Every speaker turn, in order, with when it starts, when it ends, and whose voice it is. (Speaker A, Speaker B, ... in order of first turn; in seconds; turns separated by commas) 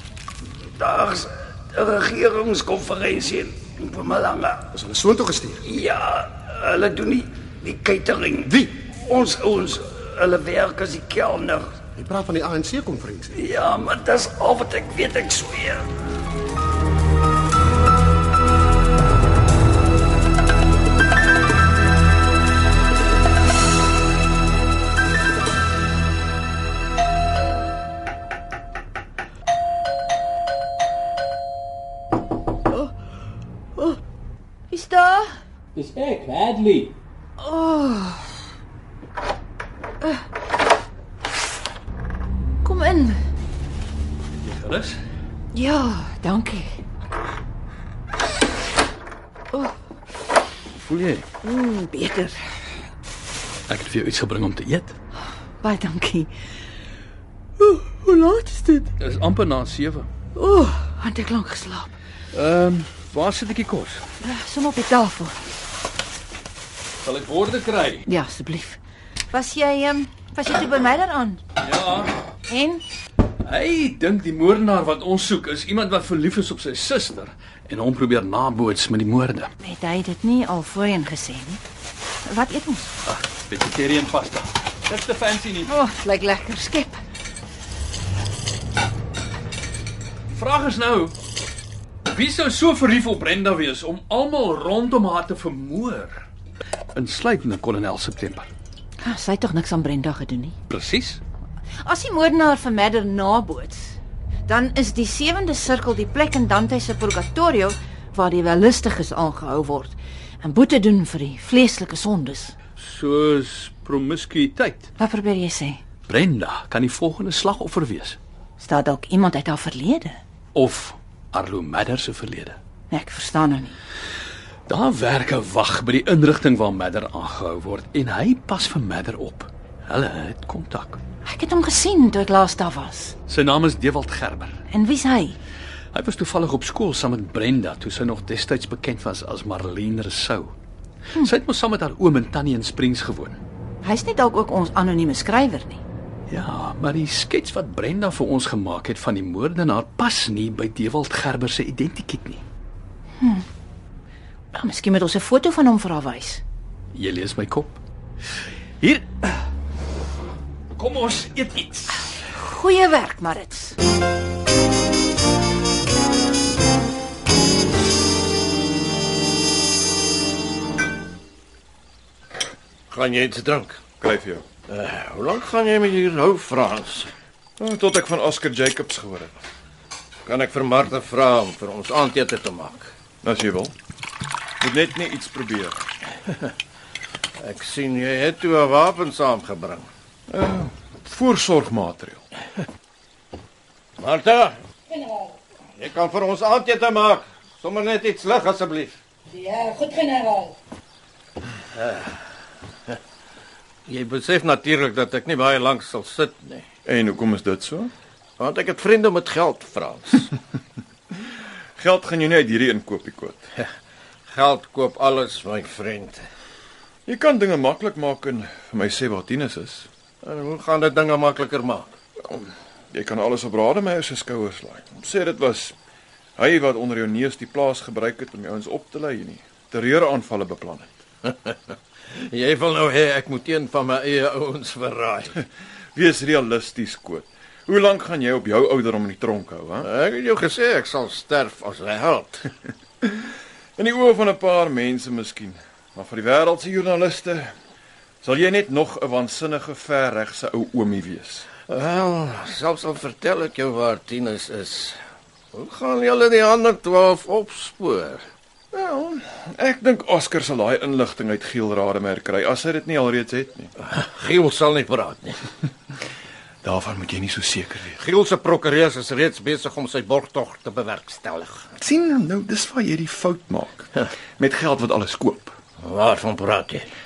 Speaker A: 0.8-4.7, Speaker B: 4.7-5.6, Speaker A: 5.7-11.8, Speaker B: 8.4-8.7, Speaker B: 12.0-13.4, Speaker A: 13.3-15.9, Speaker C: 34.7-35.3, Speaker D: 35.8-36.9, Speaker C: 37.4-38.3, Speaker C: 42.6-43.2, Speaker D: 44.4-45.0, Speaker C: 45.5-46.8, Speaker D: 50.8-51.3, Speaker C: 51.4-52.4, Speaker D: 53.7-55.0, Speaker C: 55.6-56.3, Speaker C: 57.6-58.9, Speaker D: 59.0-60.1, Speaker C: 60.4-61.9, Speaker D: 62.3-64.0, Speaker C: 64.2-65.4, Speaker D: 67.0-68.1, Speaker C: 68.1-68.8, Speaker C: 69.3-71.4, Speaker D: 71.6-72.1, Speaker C: 72.5-72.8, Speaker D: 73.5-79.5, Speaker C: 79.6-81.6, Speaker C: 82.3-82.9, Speaker D: 83.1-85.8, Speaker C: 85.7-87.0, Speaker D: 90.3-91.2, Speaker D: 92.1-96.3, Speaker D: 97.0-98.5, Speaker C: 99.0-100.6, Speaker D: 100.7-101.2, Speaker C: 101.8-112.6, Speaker D: 112.8-114.9, Speaker C: 115.0-115.8, Speaker D: 116.1-118.2, Speaker C: 118.6-120.2, Speaker D: 120.5-122.6, Speaker C: 122.9-123.8, Speaker D: 124.7-131.0, Speaker C: 131.3-133.2, Speaker D: 133.3-134.6, Speaker C: 134.7-135.4, Speaker D: 135.9-140.5, Speaker D: 141.2-143.4, Speaker C: 143.8-145.8, Speaker D: 146.3-152.4, Speaker C: 153.2-153.4, Speaker C: 154.5-156.4, Speaker D: 156.9-157.8, Speaker D: 158.8-159.2, Speaker D: 160.8-162.1, Speaker C: 162.2-163.8, Speaker E: 172.9-173.8, Speaker F: 174.0-174.4, Speaker E: 174.7-177.1, Speaker F: 177.6-179.3, Speaker E: 180.3-182.9, Speaker F: 183.2-183.7, Speaker F: 184.6-185.8, Speaker E: 187.4-189.9, Speaker F: 190.3-192.2, Speaker E: 194.0-199.0, Speaker E: 199.5-200.5, Speaker E: 201.8-202.1, Speaker E: 203.9-206.7, Speaker F: 206.8-207.9, Speaker E: 208.4-210.3, Speaker F: 211.8-213.5, Speaker E: 214.3-216.3, Speaker F: 217.1-219.9, Speaker E: 220.2-221.9, Speaker F: 222.2-225.8, Speaker F: 226.4-231.0, Speaker E: 231.3-235.4, Speaker F: 235.9-239.9, Speaker E: 239.8-242.5, Speaker F: 243.8-247.5, Speaker F: 248.2-251.5, Speaker E: 251.7-255.0, Speaker E: 255.5-258.3, Speaker F: 258.7-263.7, Speaker E: 263.8-265.4, Speaker F: 266.6-268.0, Speaker E: 268.0-271.6, Speaker F: 271.8-275.6, Speaker E: 275.8-276.9